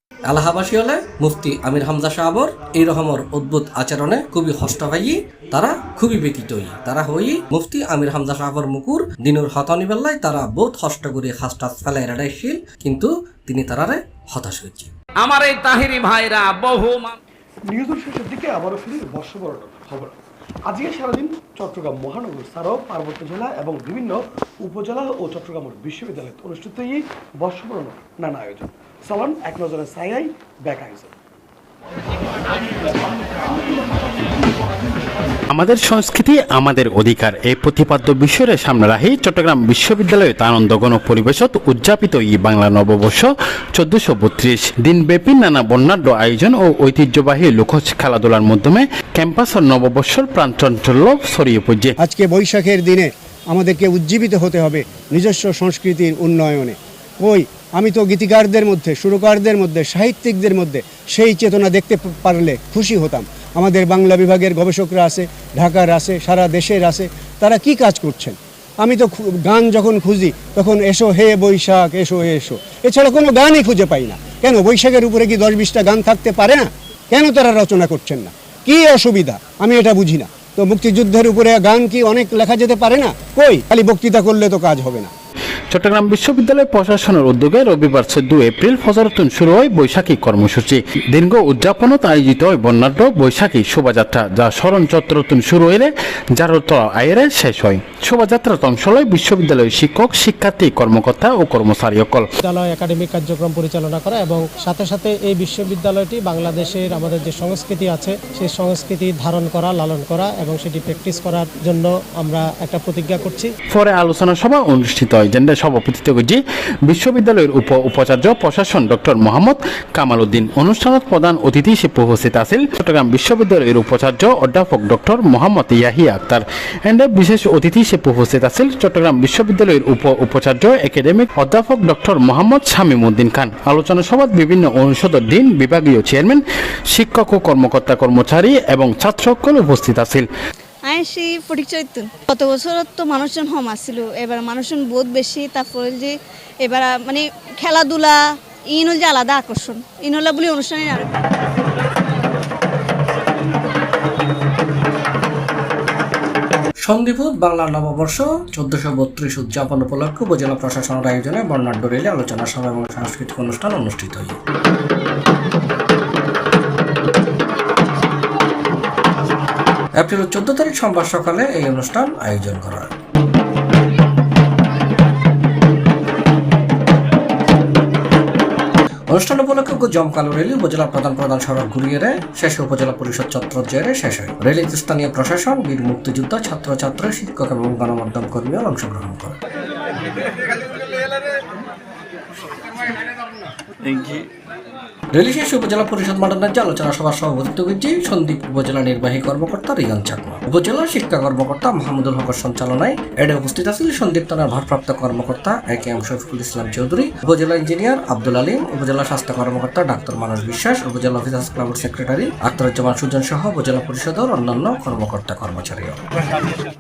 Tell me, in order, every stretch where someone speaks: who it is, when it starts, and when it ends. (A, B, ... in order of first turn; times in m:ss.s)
0:00.3-0:14.9 A
0:15.2-0:17.2 B
0:17.7-0:20.2 C
0:20.7-0:31.1 C
0:35.5-0:52.0 D
0:52.0-1:25.1 E
1:25.7-1:42.3 D
1:42.4-1:53.5 F
1:53.7-2:20.3 D
2:20.9-2:28.2 G
2:28.7-2:31.1 G
2:36.8-2:44.4 A
2:50.0-2:52.9 A
2:59.1-3:09.4 A
3:15.1-3:36.0 A